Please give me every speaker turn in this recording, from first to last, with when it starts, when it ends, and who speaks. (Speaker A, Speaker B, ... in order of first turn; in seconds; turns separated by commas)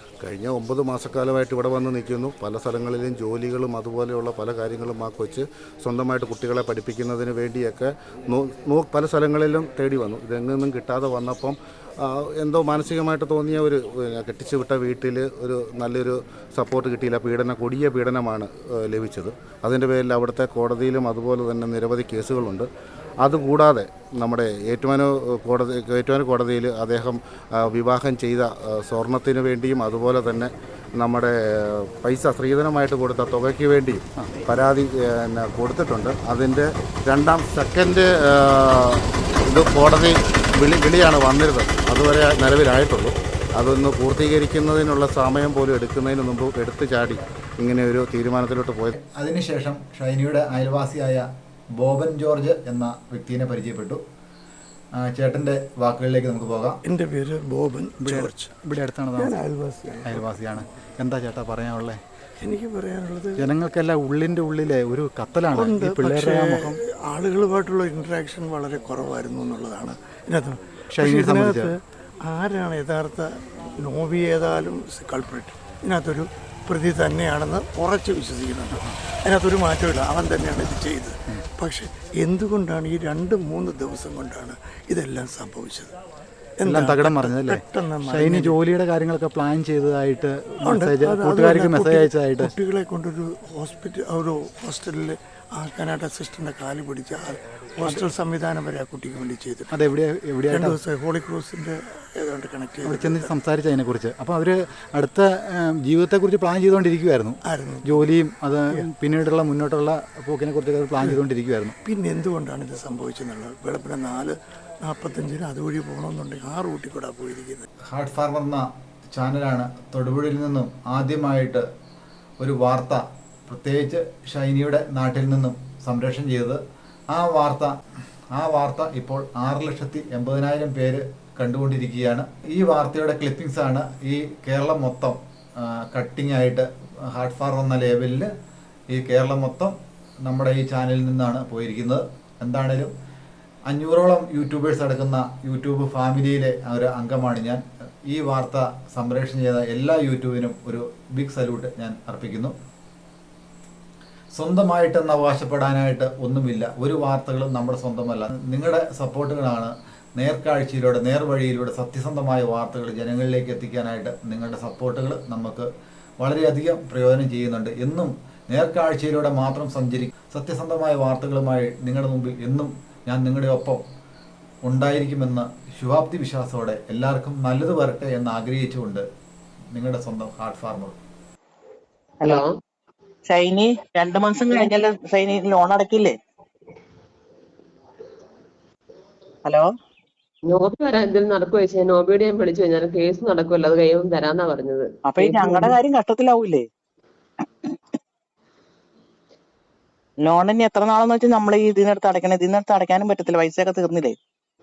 Speaker A: 0.2-22.7, Speaker A: 23.2-48.9, Speaker B: 49.0-51.3, Speaker B: 51.8-54.0, Speaker B: 55.0-56.8, Speaker C: 56.9-58.5, Speaker B: 58.0-59.4, Speaker C: 59.1-60.3, Speaker B: 60.0-62.0, Speaker C: 62.4-63.4, Speaker B: 63.4-66.8, Speaker C: 65.5-85.9, Speaker B: 70.9-71.7, Speaker C: 86.6-88.6, Speaker B: 86.6-92.5, Speaker C: 90.6-99.7, Speaker B: 99.7-100.8, Speaker C: 100.5-103.3, Speaker B: 102.8-111.8, Speaker C: 107.5-108.1, Speaker C: 111.8-117.7, Speaker B: 117.9-121.7, Speaker B: 122.4-126.6, Speaker B: 127.1-127.8, Speaker B: 128.3-138.3, Speaker B: 138.9-139.7, Speaker B: 140.2-142.9, Speaker B: 143.7-152.5, Speaker B: 154.4-165.7, Speaker B: 166.2-173.8, Speaker B: 174.7-179.1, Speaker B: 179.7-181.0, Speaker D: 182.3-182.6, Speaker E: 183.3-186.2, Speaker E: 189.4-189.7, Speaker D: 190.5-195.5, Speaker E: 195.1-196.7, Speaker E: 200.2-204.2